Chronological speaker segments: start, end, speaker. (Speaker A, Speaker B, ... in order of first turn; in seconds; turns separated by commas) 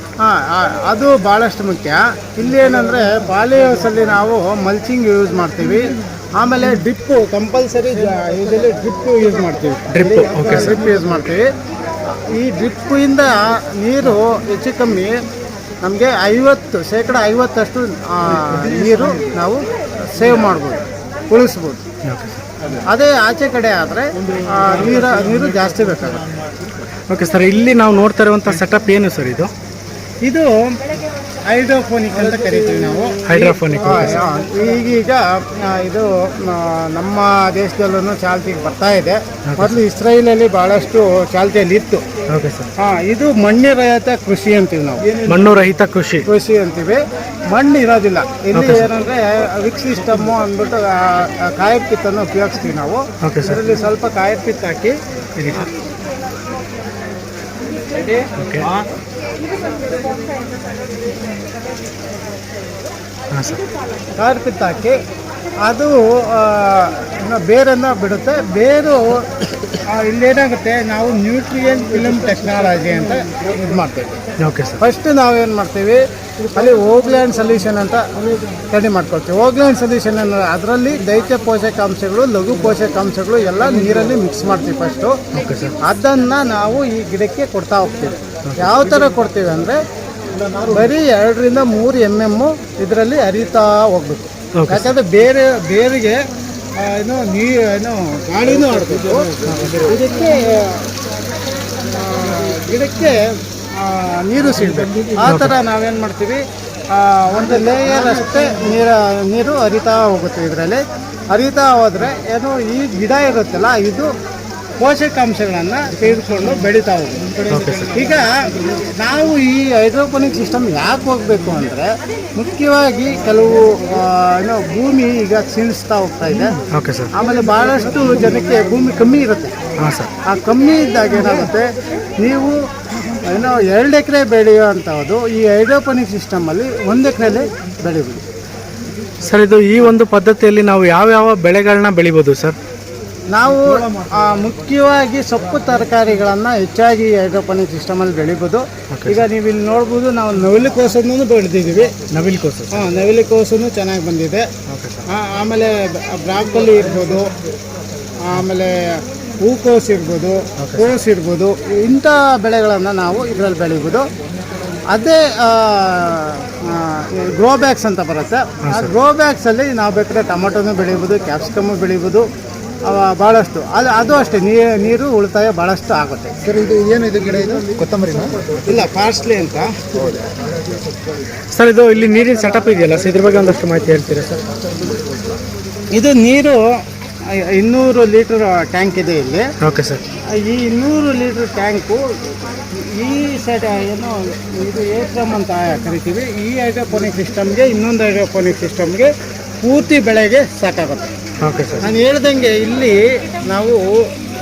Speaker A: 0.2-11.4, Speaker B: 9.9-10.8, Speaker A: 12.3-15.1, Speaker A: 15.8-21.8, Speaker B: 22.0-22.4, Speaker A: 22.9-26.2, Speaker B: 27.1-29.5, Speaker A: 30.2-30.7, Speaker A: 31.4-42.0, Speaker B: 33.3-34.1, Speaker B: 39.5-39.8, Speaker B: 42.3-42.7, Speaker A: 42.8-45.1, Speaker B: 45.2-46.2, Speaker A: 46.2-47.0, Speaker A: 47.5-54.9, Speaker B: 48.5-48.9, Speaker B: 53.2-53.6, Speaker B: 55.4-55.6, Speaker B: 58.4-58.7, Speaker B: 63.3-63.6, Speaker A: 64.2-65.0, Speaker A: 65.6-69.3, Speaker A: 69.9-74.2, Speaker B: 74.4-74.8, Speaker A: 74.8-76.0, Speaker A: 76.5-78.0, Speaker A: 78.7-85.1, Speaker B: 85.3-85.7, Speaker A: 85.8-89.8, Speaker A: 90.6-96.2, Speaker B: 94.5-94.9, Speaker A: 96.8-99.3, Speaker B: 99.5-99.8, Speaker A: 99.8-100.9, Speaker A: 101.8-103.2, Speaker A: 103.8-106.4, Speaker B: 105.2-105.5, Speaker A: 106.9-110.8, Speaker A: 111.3-114.1, Speaker A: 114.8-117.3, Speaker B: 117.5-117.9, Speaker A: 117.9-118.3, Speaker A: 118.8-126.5, Speaker B: 126.7-127.1, Speaker A: 127.1-129.5, Speaker B: 129.8-130.1, Speaker A: 130.2-131.6, Speaker A: 132.2-132.6, Speaker A: 133.2-138.2, Speaker B: 139.2-142.6, Speaker A: 143.3-151.9, Speaker B: 148.9-149.2, Speaker B: 152.1-152.8, Speaker A: 152.7-154.4, Speaker B: 154.7-155.0, Speaker A: 155.1-157.2, Speaker A: 158.2-164.0, Speaker B: 160.6-160.9, Speaker A: 164.9-172.2, Speaker B: 168.6-168.9, Speaker A: 172.9-176.3, Speaker C: 176.5-178.5, Speaker A: 178.7-179.7, Speaker B: 181.5-184.4, Speaker A: 185.9-186.6, Speaker A: 187.4-189.4, Speaker B: 189.6-190.0, Speaker A: 190.3-192.0, Speaker A: 192.7-199.1, Speaker A: 199.6-201.1, Speaker B: 201.4-201.8, Speaker A: 201.8-203.0, Speaker A: 203.5-203.8